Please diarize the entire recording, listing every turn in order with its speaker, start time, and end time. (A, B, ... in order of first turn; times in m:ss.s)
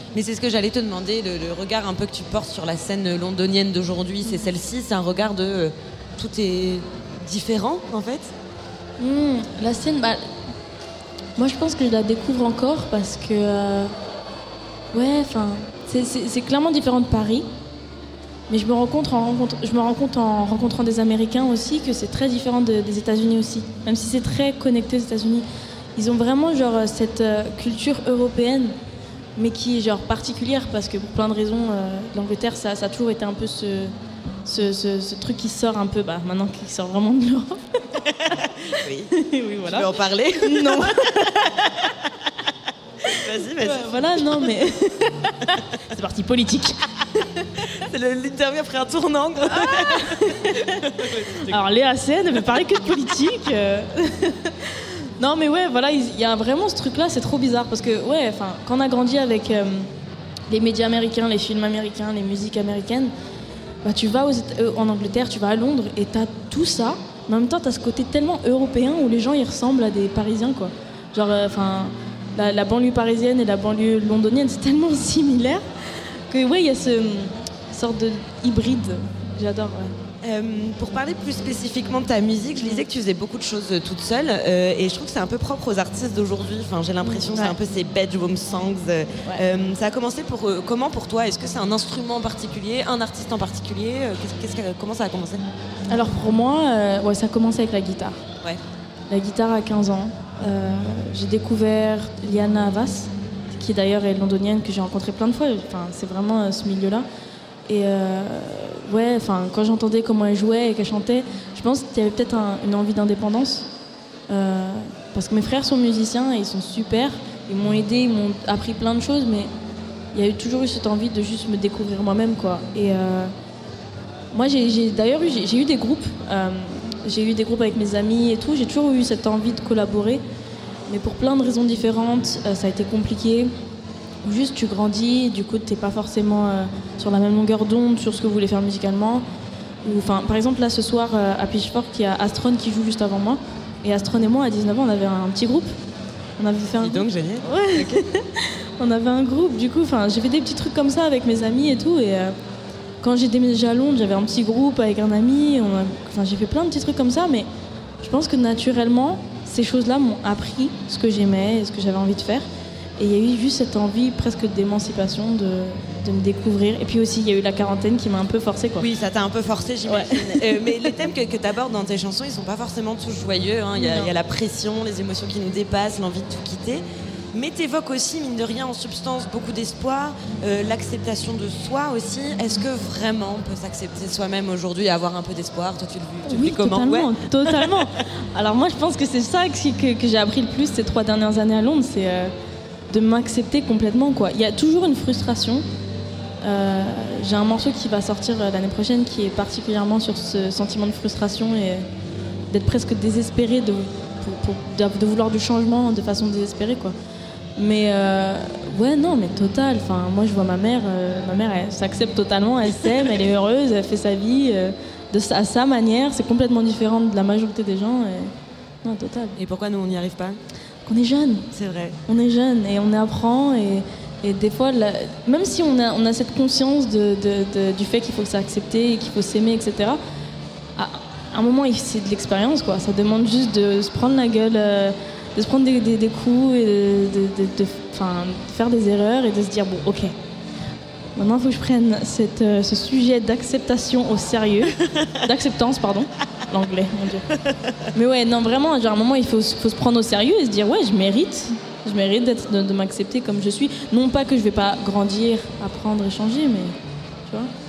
0:00.1-0:08.3 A
0:09.0-0:10.2 B
0:11.4-0:13.9 B
0:14.9-0:17.5 B
0:18.5-0:28.8 B
0:29.4-0:33.9 B
0:34.4-0:37.6 B
0:38.0-0:39.1 A
0:39.2-0:41.4 B
0:39.6-0:41.9 A
0:43.1-0:44.6 A
0:43.6-0:46.8 B
0:47.6-0:51.6 A
0:49.5-0:50.8 B
0:51.4-0:59.9 B
1:00.5-1:03.1 B
1:03.8-1:15.6 B
1:16.3-1:19.9 B
1:20.2-1:35.4 A
1:27.0-1:27.5 B
1:35.9-1:38.2 B
1:39.1-1:47.1 B
1:47.7-1:53.7 B
1:54.3-1:59.5 B
2:00.1-2:03.3 B
2:04.3-2:10.2 B
2:10.9-2:13.5 B
2:14.2-2:19.2 B
2:19.8-2:25.7 B
2:26.4-2:32.4 B
2:26.8-2:28.0 A
2:33.0-2:37.5 B
2:38.0-2:42.5 B
2:43.0-2:48.9 B
2:48.8-3:07.9 A
2:49.9-2:50.6 B
2:53.8-2:54.1 B
3:06.2-3:12.3 B
3:12.9-3:15.6 B
3:16.4-3:21.9 B
3:22.5-3:27.0 B
3:27.6-3:38.3 B
3:38.8-3:39.4 B
3:39.4-3:40.4 A
3:40.9-3:41.4 B
3:41.5-3:42.0 A
3:42.1-3:50.0 B
3:50.8-4:00.2 B
4:01.2-4:07.2 B
4:07.5-4:07.7 A
4:07.9-4:16.8 B